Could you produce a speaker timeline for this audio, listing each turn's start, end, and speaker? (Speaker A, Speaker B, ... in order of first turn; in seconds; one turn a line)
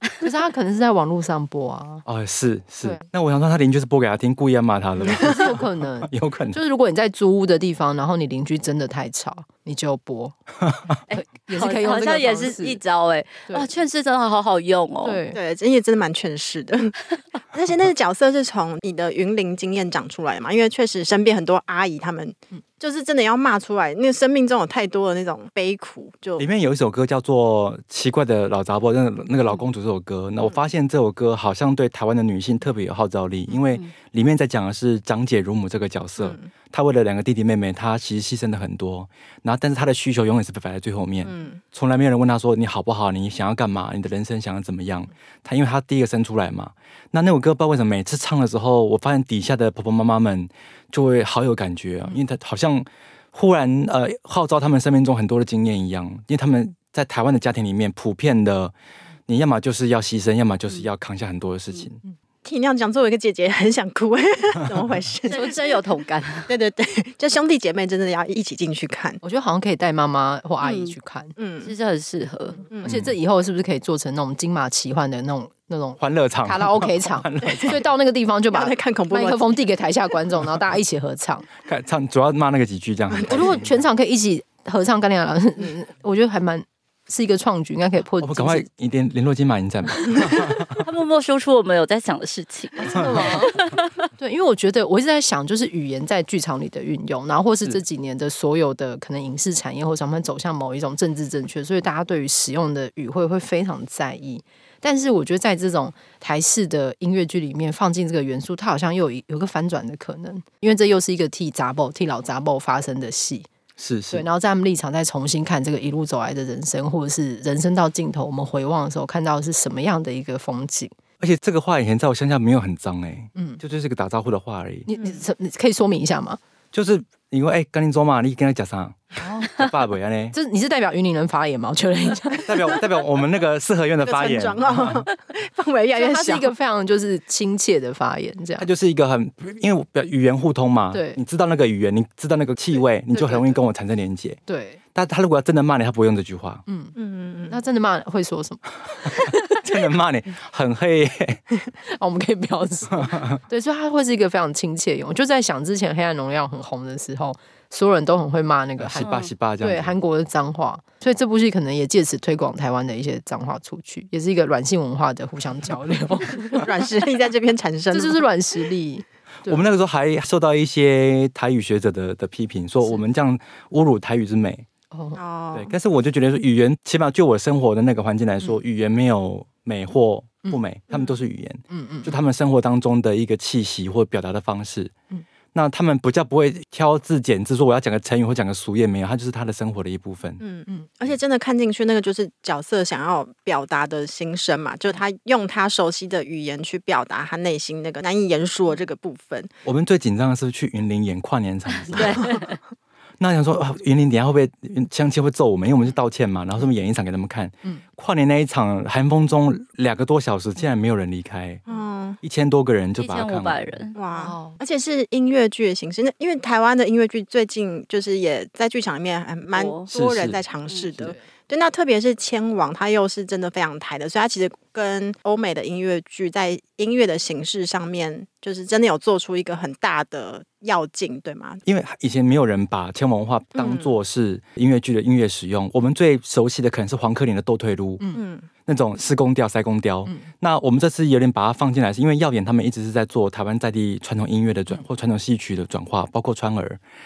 Speaker A: 0.2-2.1
Speaker B: 2.1-6.6
Speaker A: 5.0-10.4
Speaker C: 11.1-15.2
Speaker A: 11.1-12.8
Speaker A: 15.0-15.4
Speaker D: 15.3-26.4
Speaker B: 26.4-58.7
Speaker D: 36.2-36.5
Speaker D: 41.2-41.6
Speaker B: 59.3-62.0
Speaker D: 62.4-65.8
Speaker C: 65.3-66.5
Speaker D: 66.5-69.2
Speaker A: 69.2-71.4
Speaker C: 70.6-71.0
Speaker D: 71.4-71.7
Speaker C: 71.6-72.6
Speaker D: 72.7-73.0
Speaker A: 72.8-81.5
Speaker B: 72.8-73.1
Speaker B: 76.0-77.8
Speaker D: 78.5-79.5
Speaker B: 81.6-83.7
Speaker A: 83.3-88.7
Speaker B: 88.2-90.8
Speaker C: 90.8-94.0
Speaker A: 92.8-93.6
Speaker B: 93.0-93.2
Speaker A: 94.2-113.5
Speaker B: 113.8-114.3
Speaker A: 114.1-120.9
Speaker B: 121.2-124.9
Speaker A: 123.3-123.6
Speaker A: 124.9-126.4
Speaker B: 126.7-130.4
Speaker A: 129.2-129.5
Speaker A: 130.3-132.8
Speaker B: 132.5-135.1
Speaker D: 134.0-136.5
Speaker A: 135.9-138.7
Speaker B: 138.6-144.4
Speaker A: 140.9-141.2
Speaker A: 143.1-143.6
Speaker A: 144.5-144.8
Speaker B: 144.9-146.6
Speaker A: 146.7-147.0
Speaker D: 147.0-147.6
Speaker A: 147.5-149.7
Speaker B: 149.2-151.4
Speaker A: 151.9-166.7
Speaker B: 152.9-153.4
Speaker B: 158.8-159.9
Speaker C: 159.0-159.3
Speaker D: 166.5-168.2
Speaker A: 167.9-169.6
Speaker B: 169.4-174.7
Speaker A: 174.9-175.2
Speaker D: 175.2-175.7
Speaker B: 175.5-184.9
Speaker A: 181.7-182.1
Speaker B: 185.5-190.4
Speaker D: 190.4-199.5
Speaker B: 199.7-202.4
Speaker C: 201.9-202.6
Speaker B: 203.2-211.6
Speaker D: 211.7-212.2
Speaker B: 212.2-213.8
Speaker C: 213.0-214.0
Speaker D: 214.0-231.6
Speaker A: 214.2-214.6
Speaker C: 219.5-219.9
Speaker B: 219.9-220.4
Speaker B: 231.7-238.0
Speaker D: 233.6-233.9
Speaker D: 238.1-238.5
Speaker B: 238.7-246.8
Speaker A: 240.1-240.3